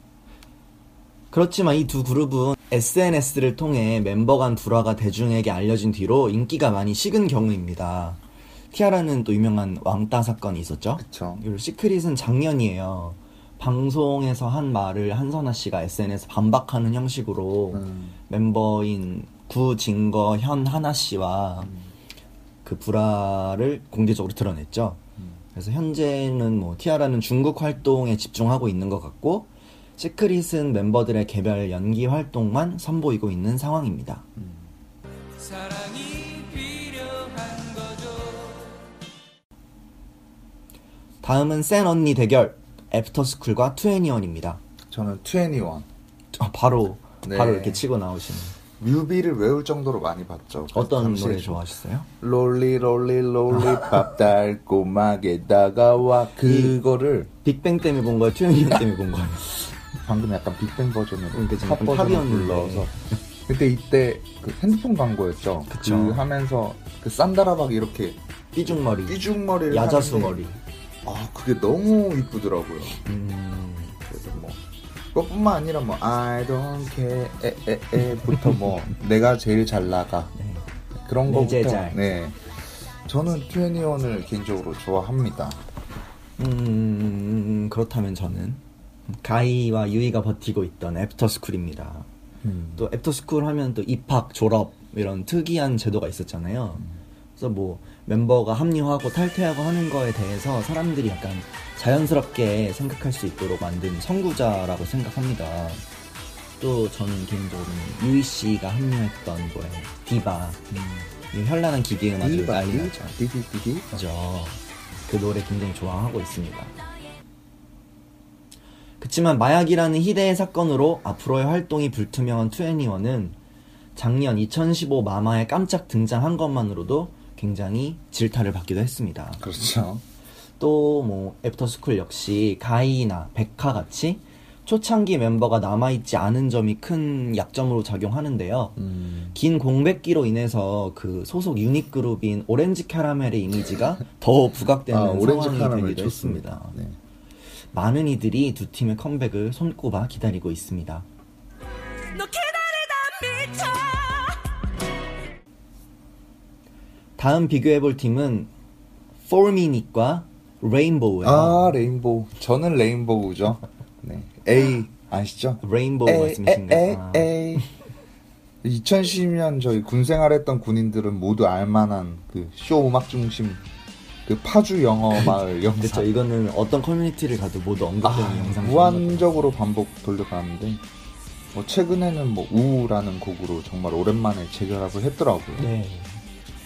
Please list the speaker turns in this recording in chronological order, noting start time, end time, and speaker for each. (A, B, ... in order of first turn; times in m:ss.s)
0:01.3-0:08.2 A
0:08.7-0:21.7 A
0:11.0-0:11.4 B
0:17.7-0:18.2 B
0:21.6-0:21.9 B
0:22.6-0:25.0 A
0:25.5-0:34.3 A
0:34.4-0:34.7 B
0:41.2-0:44.6 A
0:44.9-0:45.9 B
0:46.4-0:48.5 A
0:47.2-0:47.8 B
0:48.8-0:51.6 B
0:50.7-0:52.1 A
0:52.2-0:57.3 B
0:56.4-0:56.8 A
0:57.4-0:59.7 A
1:00.0-1:02.9 B
1:01.3-1:03.2 A
1:03.5-1:10.5 B
1:05.7-1:06.3 A
1:08.5-1:10.6 A
1:11.0-1:13.0 B
1:13.0-1:14.0 A
1:14.1-1:14.6 B
1:15.1-1:20.3 B
1:20.4-1:20.6 A
1:21.0-1:22.5 B
1:21.2-1:22.0 A
1:23.0-1:25.6 B
1:26.4-1:32.1 A
1:32.4-1:32.9 B
1:32.8-1:45.8 A
1:46.6-1:50.6 A
1:50.7-1:51.1 B
1:51.3-1:53.2 A
1:52.2-1:53.9 B
1:53.9-1:56.8 A
1:59.0-2:03.4 A
2:03.9-2:09.4 A
2:09.4-2:10.0 B
2:10.6-2:26.8 A
2:18.8-2:19.4 B
2:24.9-2:27.0 B
2:27.7-2:31.1 A
2:32.1-2:34.4 C
2:37.2-2:38.5 A
2:39.2-2:41.8 A
2:41.2-2:47.6 B
2:45.6-2:47.6 A
2:48.6-2:53.6 B
2:54.2-2:56.1 B
2:55.1-2:59.5 A
2:58.0-3:00.8 B
3:01.5-3:05.7 B
3:05.6-3:06.2 A